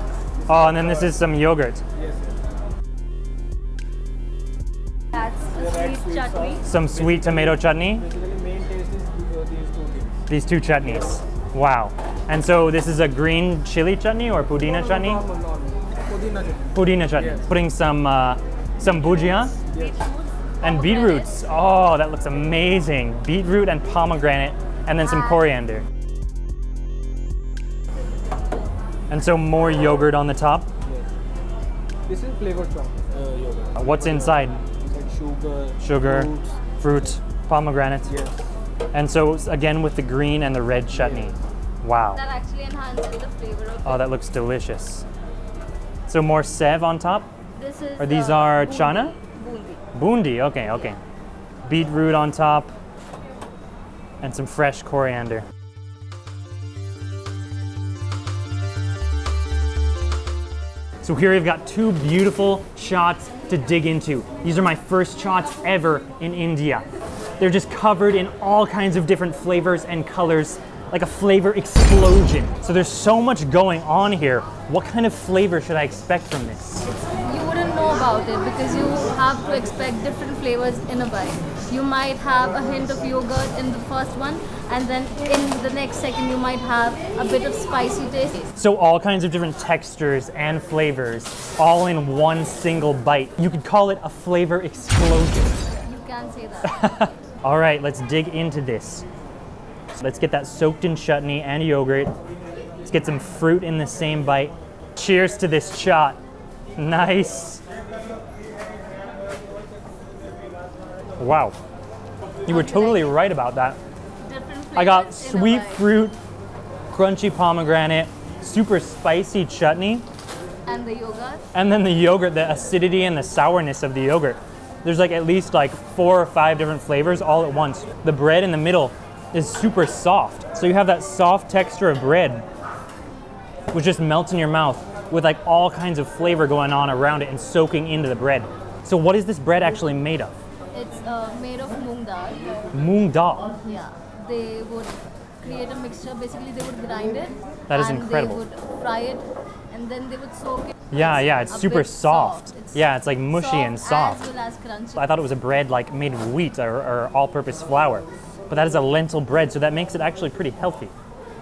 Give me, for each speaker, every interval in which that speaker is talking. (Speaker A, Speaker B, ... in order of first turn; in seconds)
Speaker A: 0.4-1.1, 2.0-2.3, 5.6-10.2, 14.6-17.4, 19.7-20.0, 32.1-36.6, 38.1-38.4, 41.0-41.3
Speaker B: 0.5-1.8, 6.6-8.1, 10.3-15.2, 16.7-19.6, 20.6-25.8, 29.1-30.7, 33.7-34.6, 35.8-38.1, 38.9-42.2, 43.8-45.0, 46.1-47.3, 48.0-49.1, 49.9-51.0, 51.6-52.7, 54.2-55.5, 61.0-66.8, 67.4-76.8, 88.5-95.7, 96.6-99.0, 99.9-102.1, 102.8-106.2, 106.8-107.6, 111.2-111.5, 112.4-113.8, 114.7-116.2, 116.9-120.0, 121.5-132.4, 133.7-140.3, 142.7-143.5, 147.7-148.4, 150.9-154.2, 154.9-160.9
Speaker C: 5.1-6.6, 19.7-21.5, 25.0-25.4, 42.1-44.1, 47.5-49.9, 76.9-88.5, 95.8-97.1, 112.5-113.2, 114.2-115.9, 120.7-121.4, 140.7-142.7, 143.6-155.3